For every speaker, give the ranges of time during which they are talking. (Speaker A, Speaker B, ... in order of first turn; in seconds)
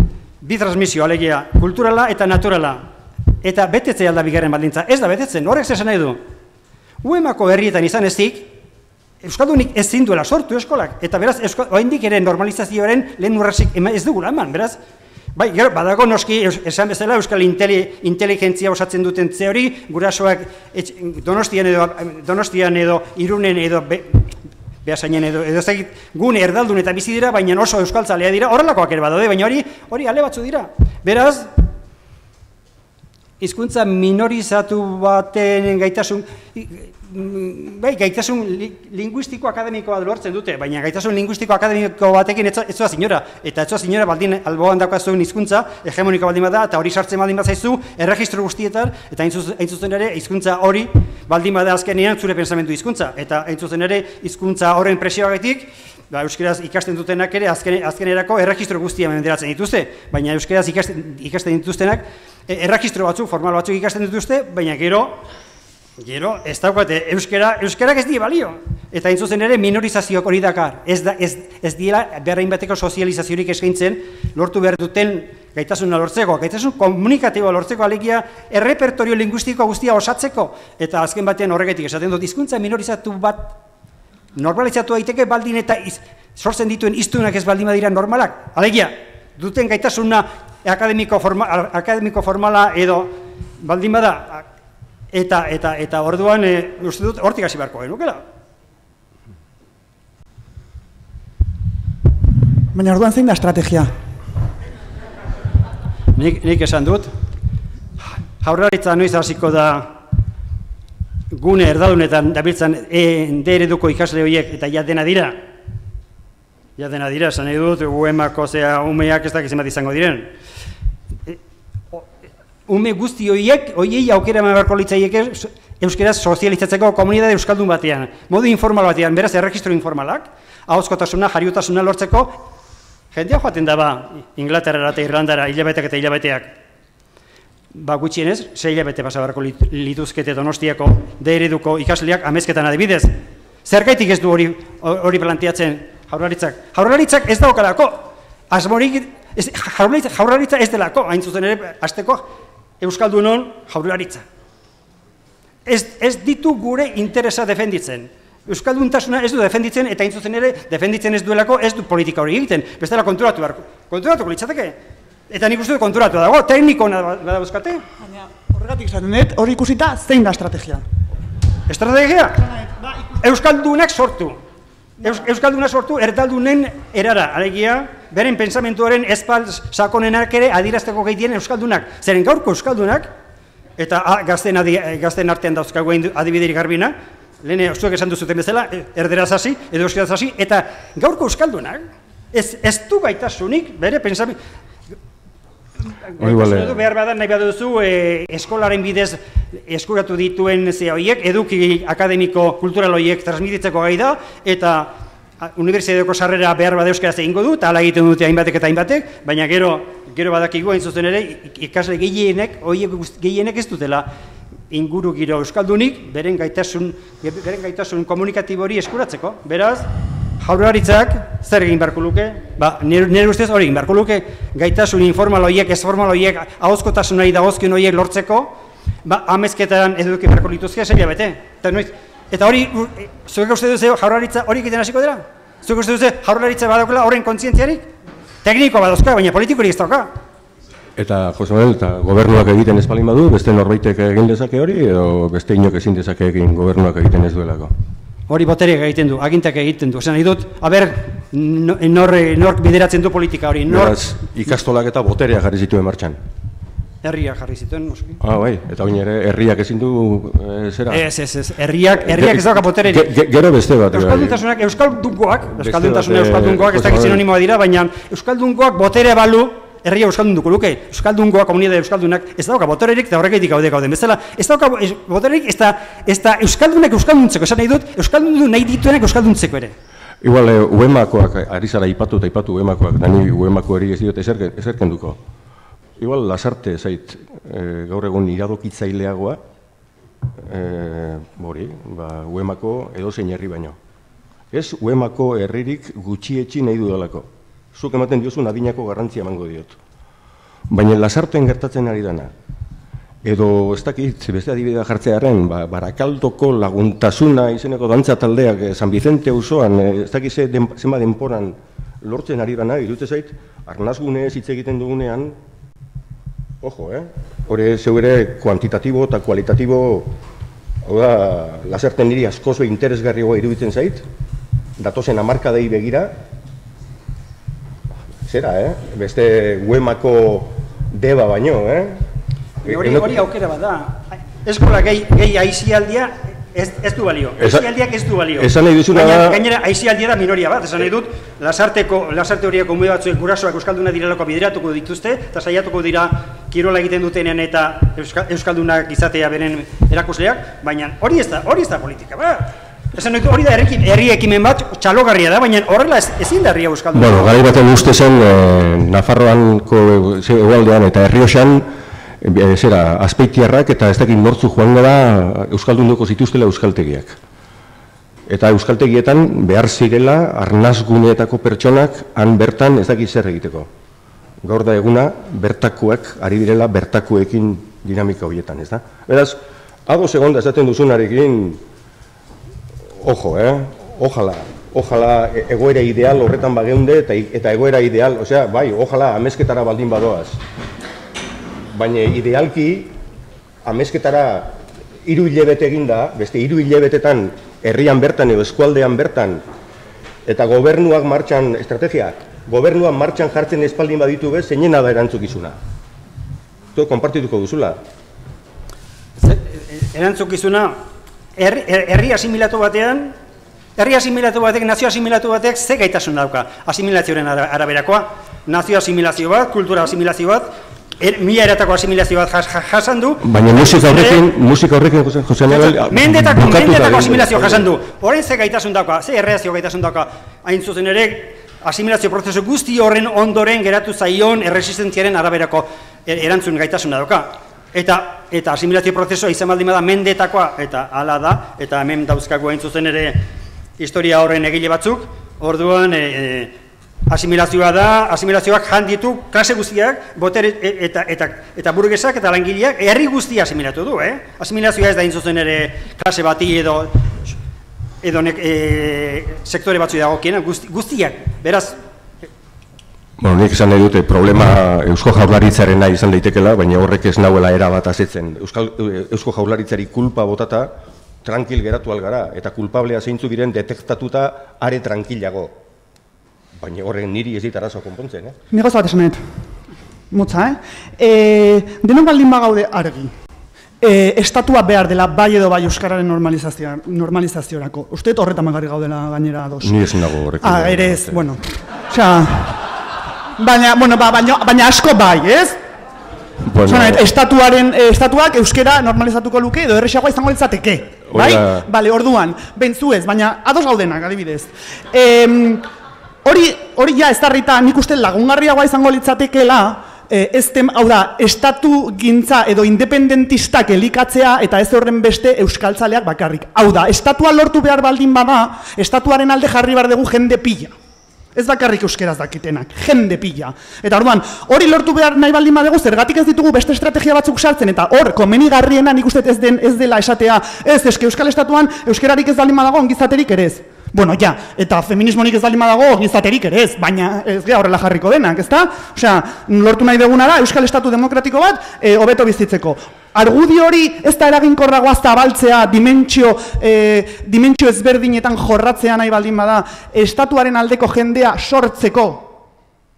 Speaker A: 0.4-2.9, 3.4-6.2, 7.0-8.5, 9.2-14.8, 15.3-24.3, 24.8-31.5, 33.4-65.2, 66.0-83.5, 84.3-94.4, 95.1-98.2, 106.2-107.1, 108.4-110.0, 111.3-115.4, 116.8-120.3, 122.7-132.4, 133.1-136.5, 137.7-143.1, 143.7-152.3, 152.8-154.2, 155.7-164.8, 165.3-167.8, 171.7-172.4, 173.2-174.4, 175.0-183.1, 183.8-191.8, 192.3-194.4, 196.1-214.1, 214.7-219.9, 220.4-237.9, 238.4-240.1, 248.3-254.0, 257.0-258.2, 260.9-263.1, 263.9-279.7, 332.6-357.4, 409.2-410.8, 411.4-413.1, 413.8-420.5, 421.0-423.2, 423.8-424.2, 425.5-443.2, 443.8-446.5, 447.1-457.1, 458.0-461.8
Speaker B: 102.7-103.9, 168.0-170.8, 172.4-173.0, 478.5-479.2, 480.1-483.1, 483.8-489.7, 490.4-492.6, 493.4-495.6, 496.6-505.6, 506.2-520.7, 521.3-552.4
Speaker C: 196.2-196.8, 240.9-247.7, 253.7-256.2, 258.2-261.1, 262.0-264.4, 265.6-267.2, 280.2-285.2, 286.0-289.4, 290.4-293.8, 294.5-299.8, 300.7-302.3, 303.2-315.4, 316.6-320.2, 320.8-324.0, 324.8-326.1, 328.2-332.0, 332.6-333.2, 337.4-337.7, 338.3-339.4, 356.9-361.7, 362.2-367.2, 368.3-373.7, 374.4-381.6, 383.0-390.4, 391.7-392.9, 393.6-399.4, 400.2-405.6, 406.7-407.8, 423.2-427.7, 463.2-475.6, 476.6-478.4, 489.6-491.3, 496.4-497.1, 501.1-501.7